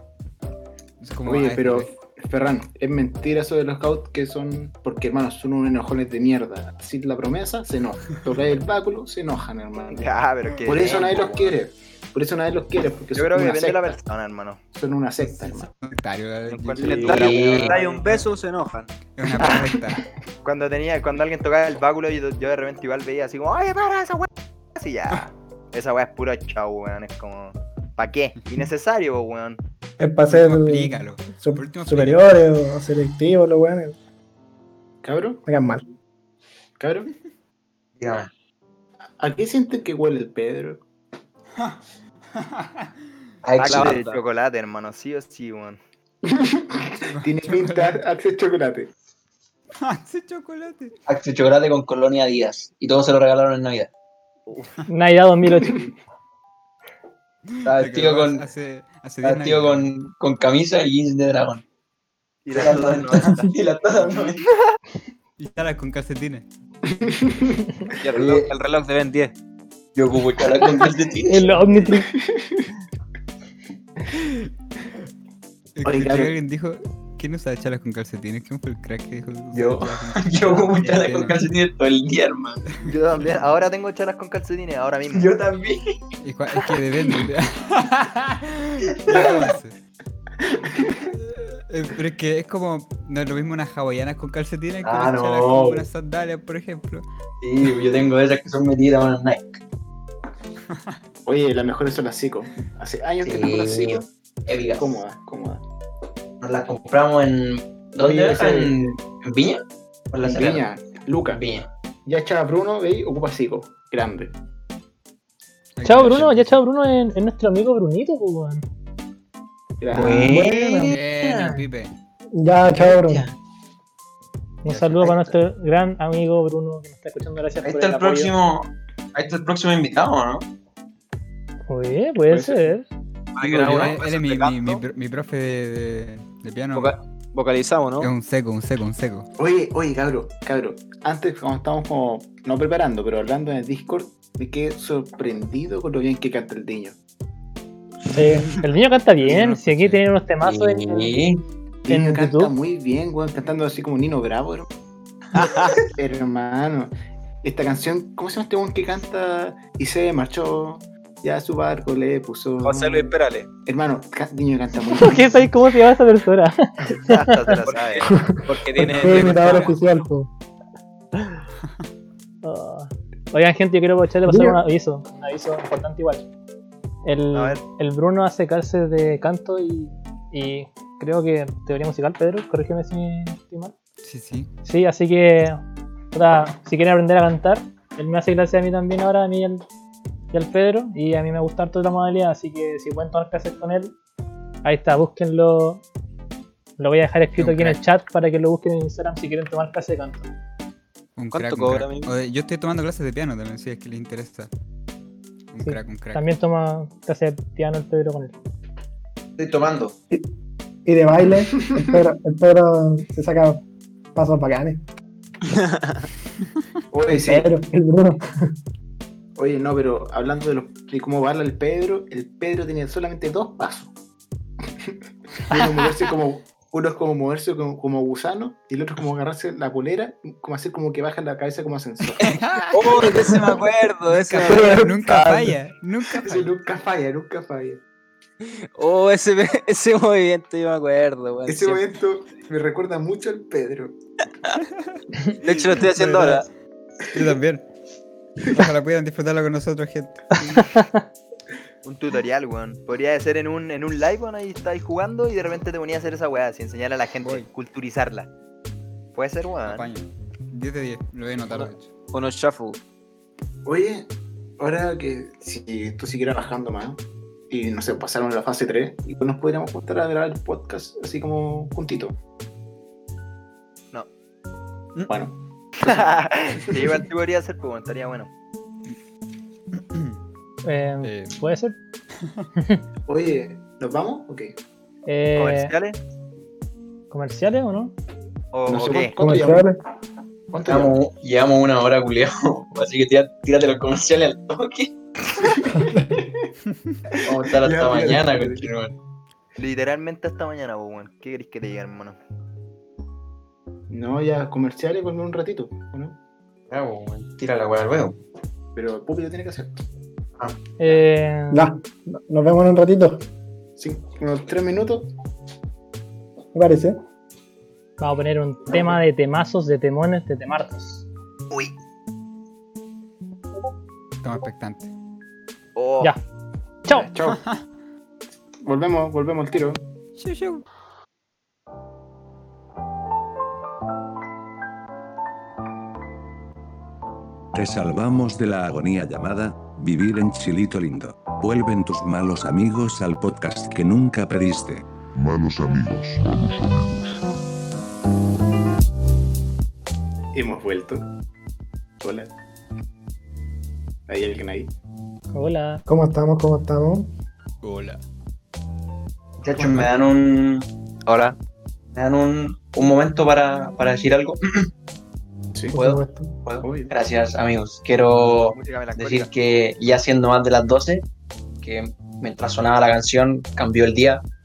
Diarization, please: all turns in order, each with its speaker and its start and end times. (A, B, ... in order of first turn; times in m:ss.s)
0:01.0-0:01.9 A
0:01.3-0:14.0 B
0:09.9-0:11.6 C
0:13.1-0:14.6 C
0:14.7-0:15.7 B
0:15.2-0:17.2 A
0:16.5-0:18.2 C
0:16.8-0:18.9 D
0:17.0-0:17.8 E
0:19.2-0:20.0 A
0:19.4-0:19.7 C
0:20.4-0:29.6 C
0:30.0-0:34.0 F
0:30.3-0:32.3 A
0:35.0-0:35.4 B
0:35.5-0:35.8 F
0:36.8-0:37.1 B
0:38.0-0:38.3 E
0:39.2-0:40.8 B
0:42.3-0:42.9 A
0:43.4-0:44.2 E
0:43.6-0:45.8 C
0:43.6-0:44.2 D
0:46.2-0:48.9 B
0:47.1-0:48.0 A
0:49.8-0:50.9 A
0:51.1-0:53.9 E
0:54.5-0:54.7 C
0:54.9-0:55.8 G
0:57.5-0:59.9 A
0:57.6-0:58.4 E
0:59.2-1:01.6 E
1:02.4-1:04.3 C
1:02.5-1:04.4 E
1:05.4-1:06.4 A
1:06.9-1:07.7 B
1:08.0-1:09.3 D
1:08.1-1:08.5 E
1:10.0-1:11.9 E
1:11.3-1:12.1 G
1:12.2-1:12.7 B
1:14.1-1:14.5 A
1:15.8-1:21.4 A
1:15.8-1:16.3 B
1:19.5-1:22.7 E
1:20.8-1:21.1 C
1:22.7-1:22.9 A
1:22.8-1:25.3 C
1:25.1-1:26.0 E
1:26.2-1:29.8 A
1:29.0-1:29.4 E
1:31.1-1:37.0 A
1:34.8-1:35.9 E
1:37.4-1:39.6 E
1:40.7-1:41.0 A
1:41.2-1:44.1 B
1:43.2-1:44.9 E
1:44.8-1:45.6 B
1:46.4-1:50.7 E
1:48.0-1:48.7 B
1:50.2-1:51.4 B
1:51.3-1:51.7 E
1:52.1-1:54.4 B
1:55.8-1:56.6 A
1:55.8-1:58.6 G
1:59.8-2:00.4 B
1:59.9-2:01.6 E
2:00.0-2:00.9 F
2:00.8-2:01.9 A
2:02.3-2:03.2 F
2:02.8-2:03.3 E
2:04.6-2:08.3 G
2:07.6-2:10.5 E
2:11.7-2:12.9 G
2:12.3-2:12.7 B
2:13.4-2:14.8 D
2:13.4-2:14.0 E
2:13.6-2:17.0 A
2:16.7-2:18.1 D
2:18.0-2:19.3 A
2:19.4-2:27.0 B
2:28.1-2:28.5 F
2:28.6-2:31.2 G
2:29.2-2:30.0 A
2:30.4-2:31.4 E
2:31.9-2:34.7 B
2:31.9-2:32.5 G
2:35.3-2:35.8 D
2:35.9-2:43.1 B
2:42.6-2:43.5 D
2:43.6-2:45.5 B
2:45.0-2:47.6 G
2:47.0-2:48.1 C
2:47.7-2:49.8 D
2:48.1-2:50.3 F
2:49.0-2:49.7 A
2:52.4-2:56.2 G
2:54.3-2:54.6 F
2:57.0-3:03.7 G
2:57.3-2:57.6 C
3:04.0-3:04.5 A
3:04.6-3:05.6 G
3:06.1-3:09.6 G
3:10.3-3:13.9 G
3:14.6-3:15.8 G
3:16.8-3:20.3 G
3:17.4-3:17.8 A
3:21.2-3:24.5 A
3:21.3-3:22.1 D
3:25.5-3:26.3 A
3:25.6-3:28.4 G
3:29.4-3:30.0 E
3:30.9-3:33.6 F
3:34.2-3:34.8 F
3:35.5-3:36.0 D
3:36.9-3:37.5 B
3:37.3-3:38.2 F
3:39.4-3:43.9 B
3:45.5-3:52.3 B
3:52.2-3:53.1 A
3:52.2-3:55.5 D
3:54.1-3:56.5 A
3:56.1-3:57.8 B
3:58.8-4:01.8 D
4:01.5-4:04.0 B
4:04.6-4:06.4 A
4:05.4-4:06.5 D
4:07.1-4:07.7 A
4:08.4-4:10.8 A
4:10.6-4:10.9 G
4:11.8-4:18.3 C
4:17.2-4:17.5 A
4:19.2-4:19.9 C
4:19.6-4:21.9 A
4:21.5-4:22.8 D
4:23.6-4:32.2 B
4:35.1-4:35.3 B
4:35.8-4:38.3 C
4:40.7-4:41.8 G
4:41.0-4:41.4 A
4:43.1-4:44.6 B
4:45.1-4:45.7 G
4:45.4-4:46.0 C
4:47.1-4:48.0 G
4:48.5-4:49.2 C
4:48.7-4:49.7 B
4:49.2-4:49.8 F
4:50.5-4:51.0 B
4:50.7-4:54.9 E
4:55.8-4:56.0 F
4:57.2-4:59.0 E
4:57.3-4:58.7 B
4:59.6-5:02.2 C
5:03.9-5:06.2 B
5:06.7-5:08.2 E
5:08.8-5:09.8 B
5:10.8-5:11.6 G
5:11.5-5:13.2 F
5:13.8-5:15.1 B
5:16.5-5:17.0 F
5:18.0-5:21.1 G
5:24.2-5:24.9 A
5:25.8-5:26.2 C
5:26.9-5:27.4 B
5:28.6-5:29.8 B
5:30.2-5:30.6 A
5:37.5-5:44.8 H
5:45.1-5:47.2 I
5:50.3-5:51.1 B
5:52.0-5:52.3 B
5:54.1-5:54.7 B
5:55.3-5:55.8 G
5:55.9-5:57.1 F
5:57.6-5:58.0 A
5:59.4-6:00.7 E
6:01.1-6:01.4 C
6:02.0-6:04.7 E
6:05.7-6:06.3 F
6:05.8-6:11.0 E
6:06.6-6:06.9 B
6:08.5-6:09.3 C
6:11.6-6:14.2 E